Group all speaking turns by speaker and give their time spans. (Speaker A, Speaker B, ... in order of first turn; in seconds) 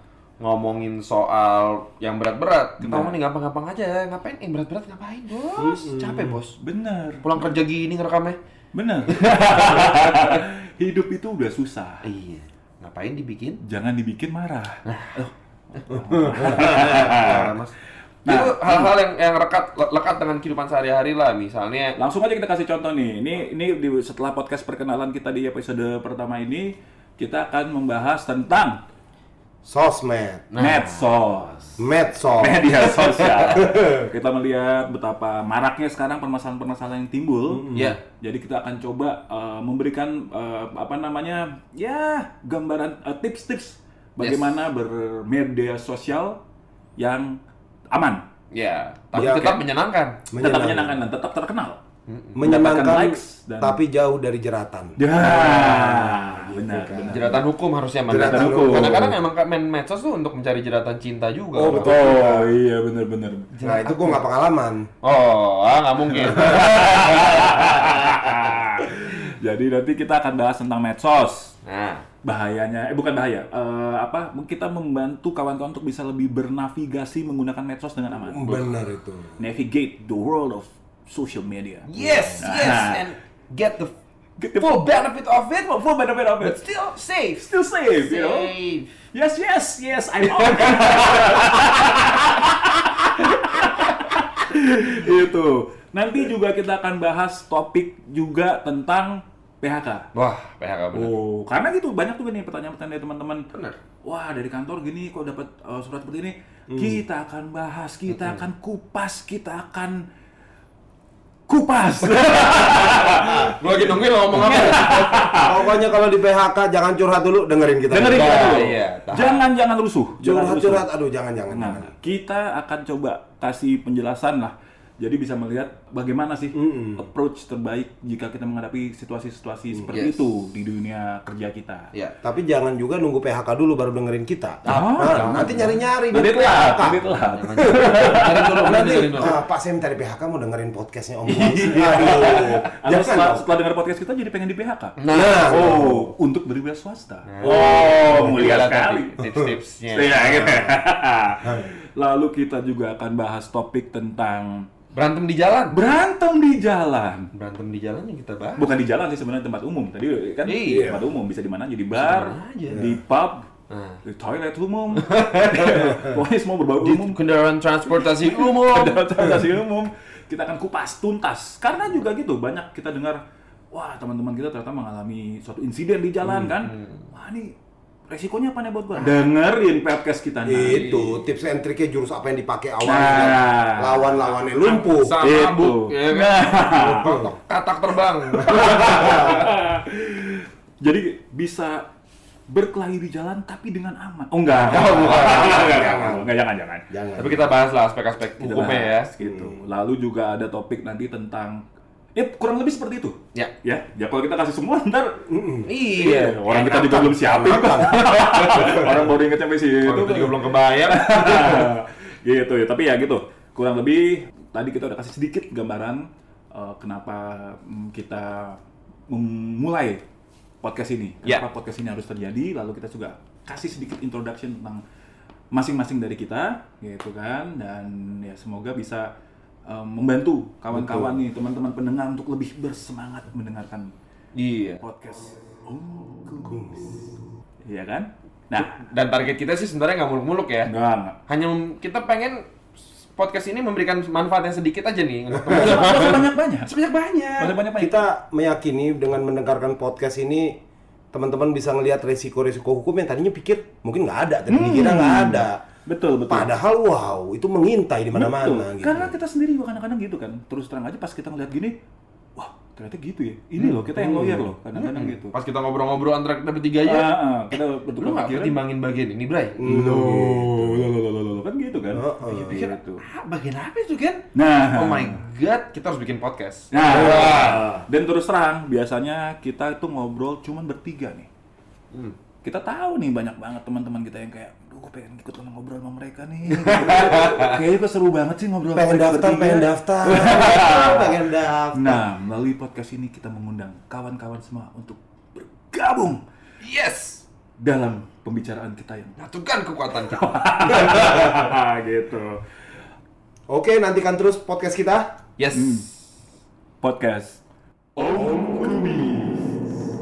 Speaker A: 0.4-6.5, 7.2-8.4, 9.2-10.4, 12.0-13.6, 14.8-15.2, 16.0-17.7, 18.2-22.0, 30.5-31.1, 32.8-33.6, 37.7-38.0, 44.2-44.6, 48.5-50.2, 52.1-52.5, 57.1-62.1, 63.5-64.2, 65.0-68.4, 71.7-72.0, 81.8-83.9, 84.6-85.8, 86.4-88.9, 90.3-92.4, 100.1-101.1, 103.5-103.8, 108.1-108.5, 112.1-115.3, 118.1-119.4, 129.9-130.2, 131.9-132.2, 134.6-135.8, 137.1-139.4, 141.9-142.5, 145.0-145.7, 147.2-150.7, 154.9-155.8, 157.3-158.7, 160.4-161.0, 161.9-162.8, 163.7-164.0, 164.9-165.9, 166.8-169.4, 180.6-181.2, 184.6-189.5, 194.6-196.2, 197.2-199.1, 205.7-208.9, 209.8-211.7, 234.3-234.8, 238.5-240.7, 241.3-242.5, 243.0-247.6, 264.7-269.6, 272.2-277.8, 286.6-287.6, 296.6-297.2, 299.2-301.3, 305.4-305.9
Speaker B: 2.8-3.1, 6.6-7.5, 8.7-12.0, 13.6-17.5, 18.2-19.0, 22.0-28.8, 30.6-31.8, 32.3-46.4, 47.0-47.4, 47.9-48.2, 49.2-49.6, 50.4-51.8, 52.4-53.8, 55.0-57.5, 58.1-59.2, 61.7-63.5, 66.2-71.5, 72.2-78.8, 79.4-83.0, 84.4-86.6, 87.4-88.5, 89.1-100.1, 100.9-103.4, 104.0-110.0, 111.5-115.6, 117.9-120.9, 121.5-131.9, 134.7-139.3, 141.3-149.2, 149.9-154.7, 155.7-157.3, 158.6-163.4, 164.0-167.2, 167.8-173.2, 173.7-177.5, 178.1-180.9, 182.8-184.2, 185.2-187.2, 188.4-191.8, 192.5-196.8, 198.4-201.6, 202.2-205.2, 205.9-220.0, 220.6-224.8, 225.5-229.1, 229.7-233.9, 234.8-237.0, 237.7-238.8, 240.6-241.2, 245.5-246.7, 247.4-248.1, 254.5-256.5, 258.1-261.8, 262.4-265.3, 266.8-268.6, 269.6-273.0, 274.3-275.2, 276.7-281.3, 282.4-291.2, 291.7-296.2, 297.6-299.2, 300.0-302.4, 305.5-305.9, 306.8-307.4, 307.9-309.6
Speaker C: 5.5-6.4, 16.1-16.7, 29.6-30.5, 31.8-32.9, 33.4-34.1, 37.5-37.9, 49.1-49.6, 50.3-51.0, 52.3-57.4, 58.1-59.1, 61.5-62.6, 63.6-64.9, 78.1-79.4, 82.0-82.3, 106.7-107.0, 115.3-118.6, 120.2-121.9, 126.5-127.0, 132.2-137.0, 138.7-143.4, 145.1-146.1, 147.4-148.2, 150.4-150.7, 160.7-161.0, 162.7-163.0, 180.4-185.1, 186.7-187.4, 188.5-189.3, 195.0-196.3, 196.9-197.5, 199.2-199.6, 205.3-205.7, 230.7-231.2, 247.8-250.6, 251.1-255.6, 256.3-259.1, 263.6-264.5, 269.6-270.9, 271.9-272.6, 288.7-292.1, 303.5-305.1